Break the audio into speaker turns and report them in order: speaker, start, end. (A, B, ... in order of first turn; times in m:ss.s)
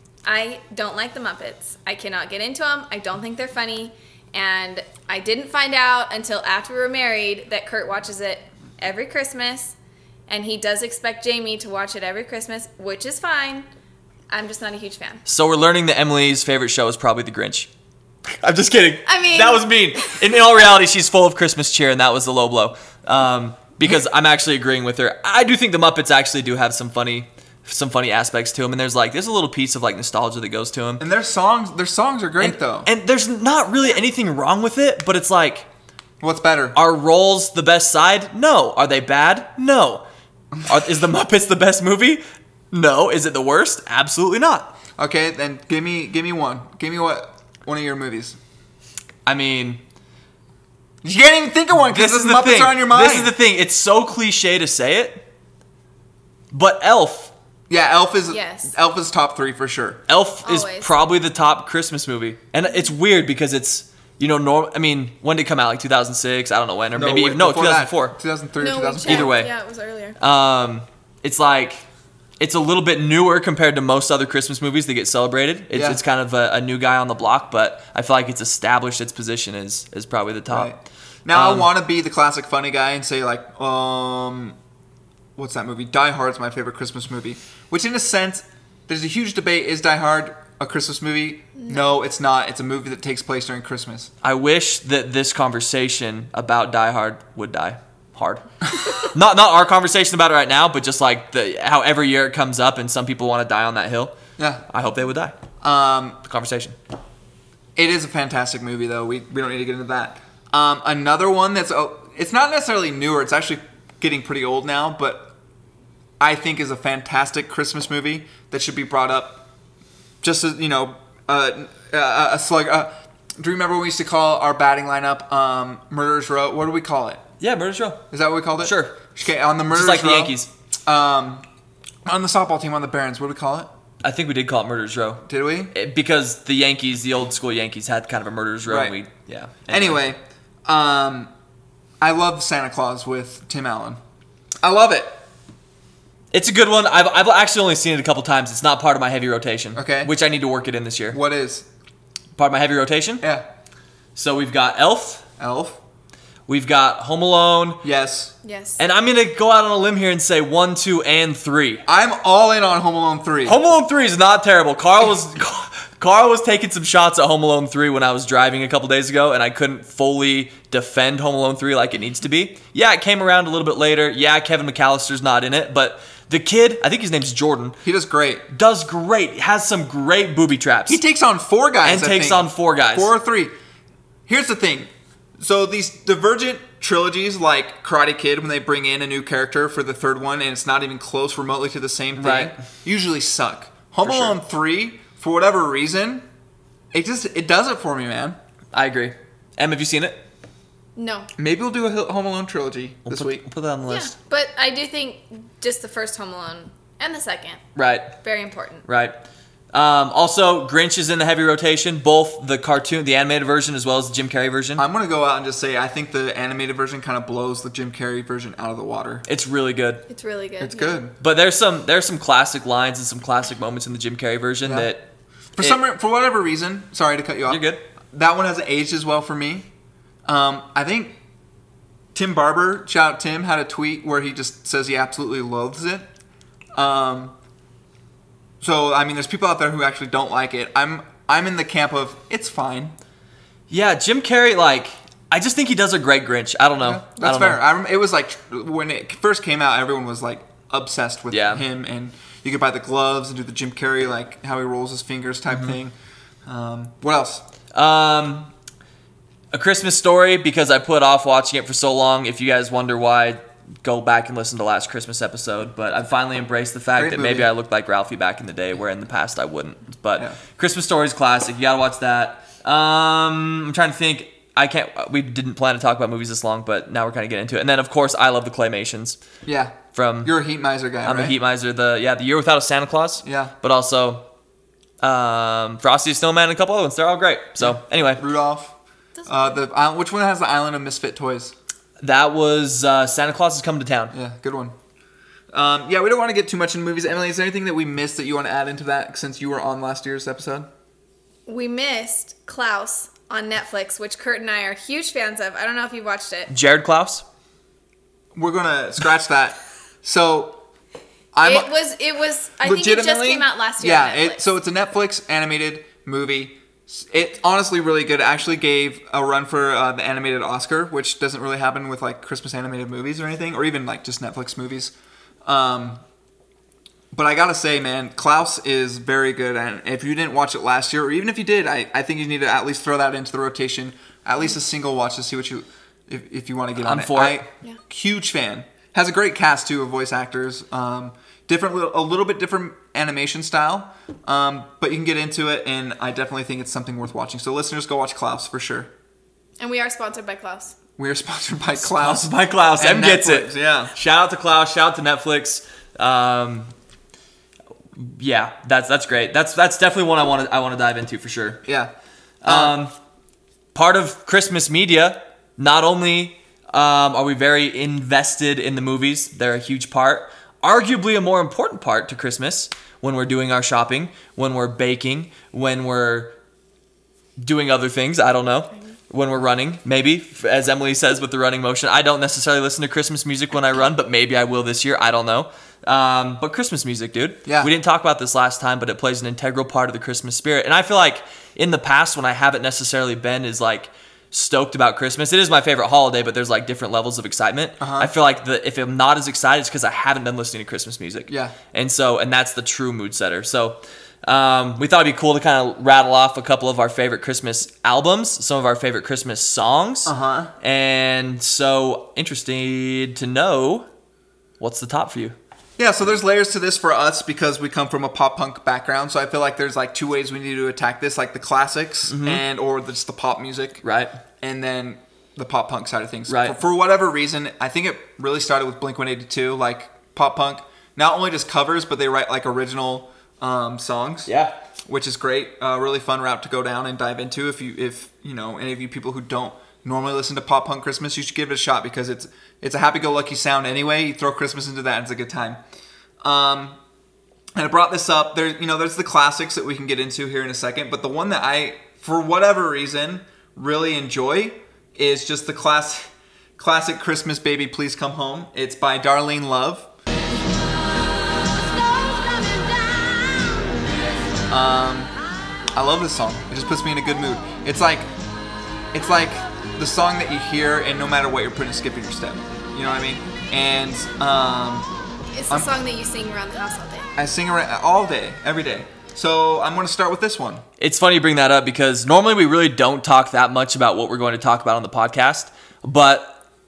0:00.2-0:09.7 A
0:10.3-0:13.7 A
0:14.3-0:15.2 A
0:15.2-0:17.7 B
0:18.4-0:31.0 B
0:19.0-0:20.2 A
0:31.0-0:32.9 C
0:32.4-0:35.7 B
0:36.2-0:36.8 C
0:36.7-0:40.0 B
0:40.6-0:44.7 B
0:45.0-0:48.4 C
0:49.2-0:49.8 B
0:51.0-0:53.3 C
0:51.8-0:55.2 B
0:56.5-0:57.3 B
0:57.7-1:00.0 C
0:58.3-0:58.7 A
1:00.1-1:08.2 B
1:00.4-1:00.9 A
1:06.9-1:09.3 C
1:08.6-1:10.2 A
1:09.0-1:09.5 B
1:10.2-1:11.8 B
1:12.4-1:20.7 B
1:15.7-1:16.0 C
1:20.5-1:24.6 C
1:21.3-1:21.7 B
1:25.4-1:34.1 C
1:31.6-1:31.8 A
1:34.2-1:44.1 B
1:44.4-1:44.6 C
1:44.7-1:45.4 B
1:45.6-1:46.2 C
1:46.2-1:46.8 B
1:47.8-1:55.3 C
1:56.2-1:59.4 C
2:00.2-2:07.2 C
2:07.4-2:08.0 B
2:08.1-2:11.4 C
2:08.6-2:09.0 B
2:09.7-2:10.5 B
2:12.0-2:13.7 C
2:14.0-2:20.0 B
2:15.3-2:15.7 C
2:18.7-2:18.9 C
2:19.7-2:21.3 C
2:22.0-2:24.0 C
2:24.6-2:25.2 C
2:26.3-2:31.2 B
2:29.7-2:30.1 C
2:31.1-2:31.6 C
2:32.4-2:33.2 B
2:33.2-2:33.4 C
2:34.2-2:35.2 B
2:35.4-2:35.8 C
2:36.5-2:37.8 B
2:37.8-2:38.3 C
2:38.4-2:38.8 A
2:38.8-2:41.8 B
2:41.8-2:43.6 C
2:43.4-2:57.8 B
2:57.8-2:58.4 C
2:58.5-3:01.0 B
3:00.9-3:03.5 C
3:01.8-3:03.1 B
3:04.3-3:16.2 C
3:12.2-3:12.5 B
3:14.0-3:14.4 B
3:16.9-3:18.4 C
3:18.7-3:20.2 B
3:21.0-3:21.3 A
3:21.4-3:23.4 C
3:23.0-3:24.1 B
3:23.9-3:27.6 A
3:27.7-3:28.2 B
3:28.2-3:28.8 A
3:28.8-3:29.2 B
3:29.7-3:34.8 B
3:34.8-3:39.2 C
3:39.2-3:40.0 B
3:40.1-3:41.0 A
3:40.6-3:41.2 C
3:41.2-3:45.0 B
3:44.6-3:44.9 C
3:45.6-3:49.7 C
3:47.5-3:47.8 B
3:50.2-3:51.2 C
3:52.1-3:56.0 C
3:56.7-3:57.3 C
3:58.6-4:02.9 C
4:03.7-4:07.6 B
4:06.8-4:15.9 C
4:11.3-4:11.6 B
4:16.4-4:17.4 C
4:17.7-4:18.5 B
4:19.5-4:39.2 B
4:27.0-4:27.5 C
4:39.4-4:41.4 C
4:39.9-4:40.3 B
4:41.0-4:44.2 B
4:43.2-4:43.5 C
4:45.0-4:48.2 B
4:47.6-4:48.7 C
4:49.2-4:49.5 A
4:49.3-4:51.5 C
4:52.0-4:54.1 B
4:54.1-4:54.7 C
4:55.5-5:00.7 C
5:01.4-5:06.5 A
5:06.5-5:07.2 B
5:08.3-5:10.6 C
5:11.3-5:11.7 C
5:11.4-5:14.4 A
5:12.6-5:24.9 C
5:25.4-5:26.0 C
5:27.1-5:48.9 C
5:36.8-5:37.5 B
5:49.6-5:50.7 A
5:51.0-5:53.9 C
5:51.8-5:56.7 B
5:57.9-6:01.6 B
6:01.6-6:01.9 C
6:02.4-6:02.9 B
6:02.4-6:02.8 C
6:03.7-6:16.3 B
6:17.4-6:53.9 B
6:37.8-6:38.1 C
6:41.3-6:41.6 C
6:50.0-6:50.5 C
6:54.6-6:55.3 B
6:55.8-7:03.8 C
7:02.1-7:02.4 B
7:03.8-7:04.2 B
7:04.4-7:14.3 C
7:06.3-7:06.6 B
7:14.3-7:14.5 B
7:14.9-7:25.6 C
7:26.2-7:26.8 C
7:27.5-7:39.9 C
7:44.5-7:45.1 C
7:45.7-7:48.1 C
7:48.9-7:54.9 C
7:55.3-7:57.1 A
7:57.2-8:00.6 C
8:00.8-8:06.3 B